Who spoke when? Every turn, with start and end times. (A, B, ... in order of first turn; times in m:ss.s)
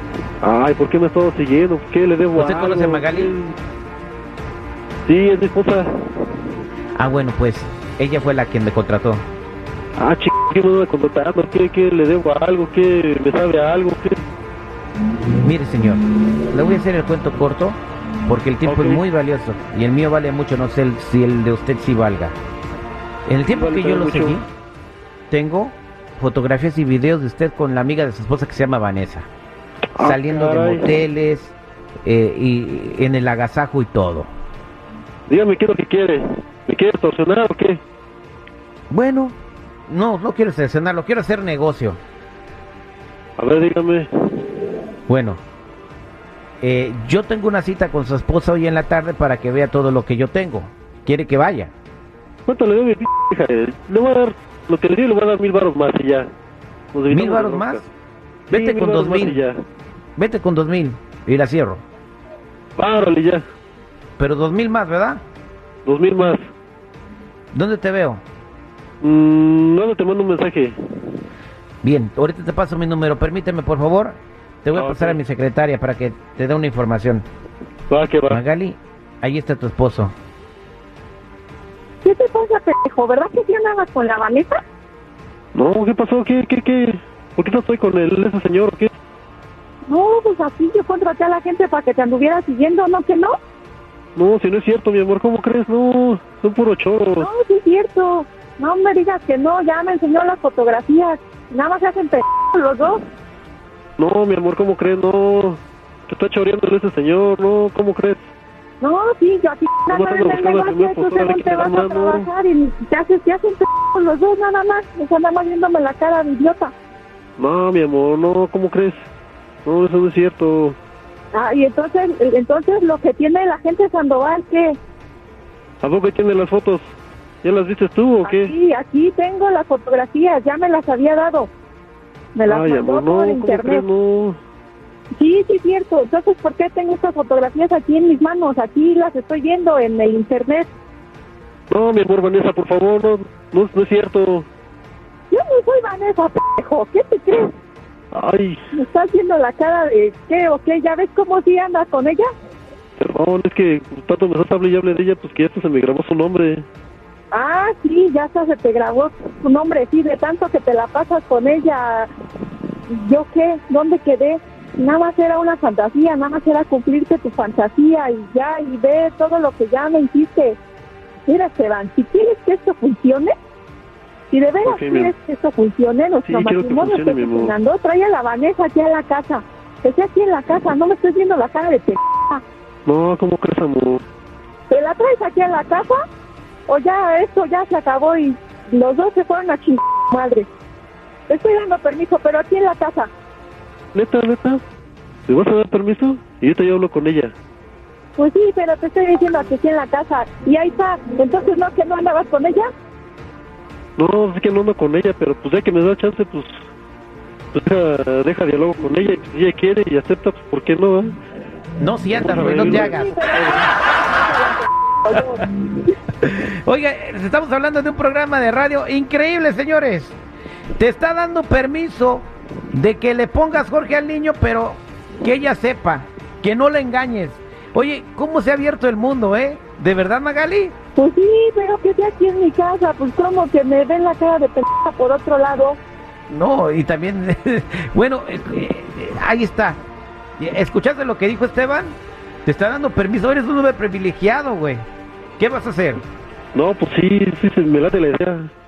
0:00.4-0:03.6 A
0:02.3-0:03.3 B
0:05.0-0:06.4 A
0:07.0-0:09.2 B
0:10.0-0:14.2 A
0:15.4-0:22.4 B
0:18.6-0:19.0 A
0:23.2-0:24.5 B
0:23.5-0:24.4 A
0:25.3-0:29.3 B
0:29.9-0:30.9 A
0:30.0-0:34.3 B
0:35.3-0:37.8 A
0:38.9-0:39.4 B
0:39.9-0:42.0 B
0:43.4-0:44.6 A
0:45.1-0:45.4 B
0:46.6-0:51.7 B
0:52.5-0:56.3 A
0:56.9-0:57.9 A
0:57.1-0:57.9 B
0:58.5-0:59.6 A
0:58.5-0:59.4 B
1:00.2-1:01.8 B
1:02.8-1:03.4 A
1:04.2-1:05.2 B
1:05.8-1:06.4 A
1:07.5-1:08.2 B
1:09.0-1:11.2 A
1:11.8-1:17.2 B
1:14.8-1:15.2 A
1:17.9-1:18.4 A
1:18.3-1:20.1 B
1:22.0-1:24.6 C
1:25.6-1:28.9 A
1:29.9-1:33.4 C
1:34.2-1:37.3 A
1:37.2-1:43.0 C
1:44.0-1:48.2 A
1:48.8-1:56.7 C
1:49.9-1:52.3 A
1:57.4-1:59.0 A
1:59.6-2:00.8 A
2:01.3-2:04.8 C
2:05.8-2:06.8 A
2:07.4-2:08.5 A
2:08.2-2:11.5 C
2:12.3-2:13.8 C
2:12.5-2:14.4 A
2:15.1-2:20.7 C
2:21.7-2:24.5 A
2:25.3-2:27.5 C
2:28.1-2:28.6 A
2:28.7-2:32.3 C
2:33.0-2:36.6 A
2:37.3-2:42.1 C
2:42.9-2:50.6 C
2:51.3-2:53.3 C
2:54.3-3:02.4 C
2:54.6-2:55.1 A
2:56.2-2:57.6 A
3:02.9-3:04.0 A
3:04.7-3:06.0 C
3:06.7-3:10.5 C
3:11.3-3:13.1 C
3:13.9-3:14.6 A
3:15.3-3:17.3 A
3:18.2-3:22.7 C
3:24.0-3:26.6 A
3:27.5-3:31.2 A
3:31.8-3:33.2 B
3:32.1-3:33.7 A
3:32.4-3:35.4 C
3:36.2-3:40.2 B
3:40.8-3:50.8 B
3:50.9-3:55.8 C
3:56.3-3:59.8 B
4:00.4-4:04.8 B
4:05.4-4:06.0 B
4:06.5-4:08.5 A